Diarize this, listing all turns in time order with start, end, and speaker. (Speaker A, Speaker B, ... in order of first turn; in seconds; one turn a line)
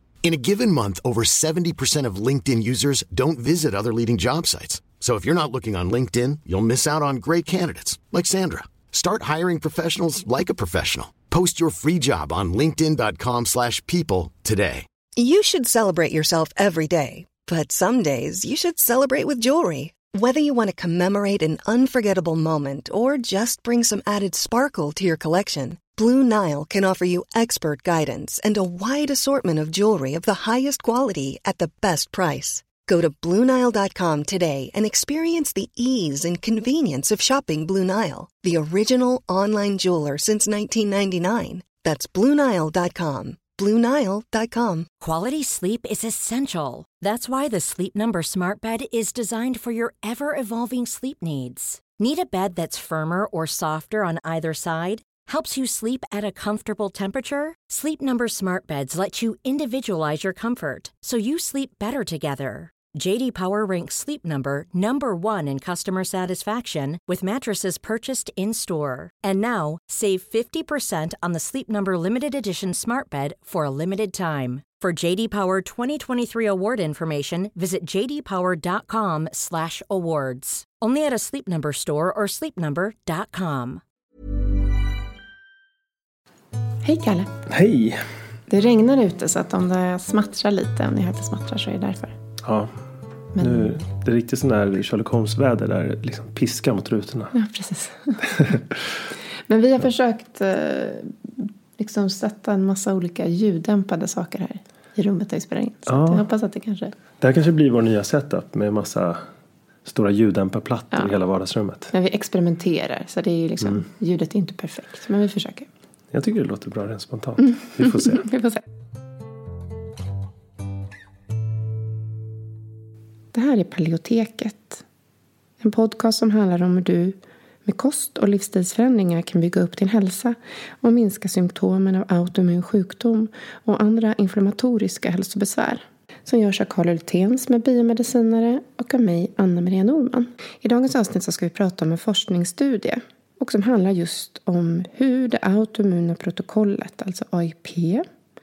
Speaker A: 0.2-14.8
Speaker B: 15.2-44.9
Speaker C: 45.0-83.8
Speaker D: 86.8-87.3
Speaker E: 87.5-88.0
Speaker D: 88.5-92.1
Speaker E: 92.4-92.7
Speaker D: 93.3-93.7
Speaker E: 93.4-97.3
Speaker D: 97.3-98.2
Speaker D: 99.5-101.1
Speaker D: 101.8-106.9
Speaker E: 105.9-106.2
Speaker E: 107.2-109.2
Speaker E: 109.8-111.9
Speaker D: 111.9-115.7
Speaker E: 116.1-118.2
Speaker D: 117.5-118.6
Speaker D: 123.3-124.8
Speaker D: 125.6-148.0